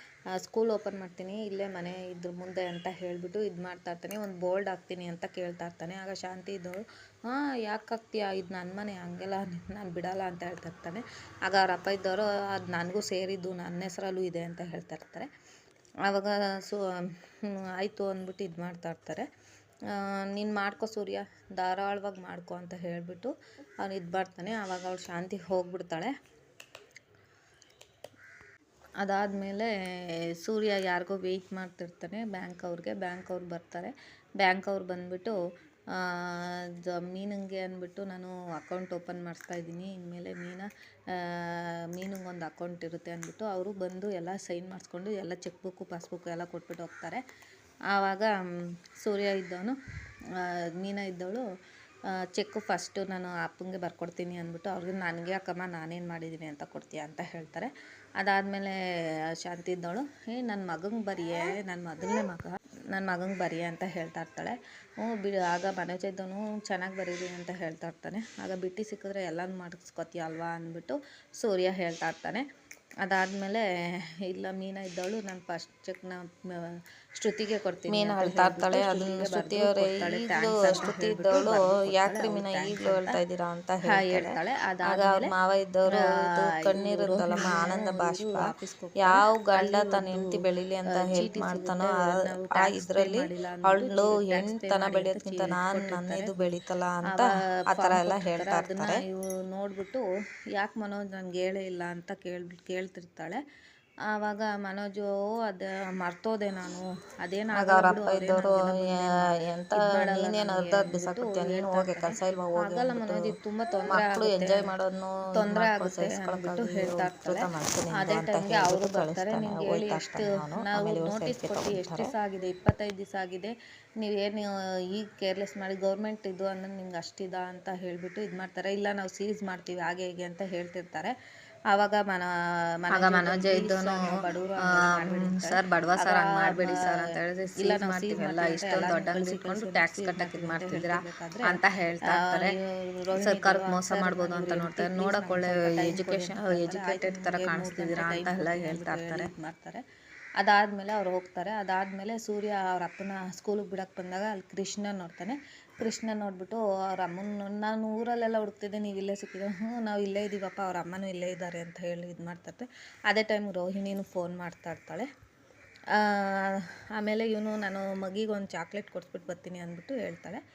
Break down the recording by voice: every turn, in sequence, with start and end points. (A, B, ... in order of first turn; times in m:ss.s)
0:00.4-0:15.3 A
0:16.0-0:16.9 A
0:17.8-0:19.3 A
0:19.9-0:26.1 A
0:29.0-0:35.4 A
0:36.0-0:47.2 A
0:47.9-0:48.4 A
0:49.0-0:49.8 A
0:50.4-0:51.4 A
0:52.3-0:58.8 A
0:59.4-1:12.4 A
1:13.0-1:13.6 A
1:14.2-1:23.1 A
1:17.9-1:28.4 B
1:23.8-1:25.3 A
1:25.9-1:30.4 A
1:29.0-1:39.0 B
1:30.9-1:36.3 A
1:37.1-1:43.4 A
1:44.1-1:49.1 A
1:47.6-1:53.2 B
1:49.8-1:54.7 A
1:53.9-2:02.1 B
1:55.3-1:57.4 A
1:57.9-2:11.1 A
2:11.7-2:16.8 A
2:12.9-2:22.5 B
2:17.6-2:21.5 A
2:22.1-2:29.8 A
2:23.1-2:29.3 B
2:30.4-2:45.1 A
2:45.9-2:50.4 A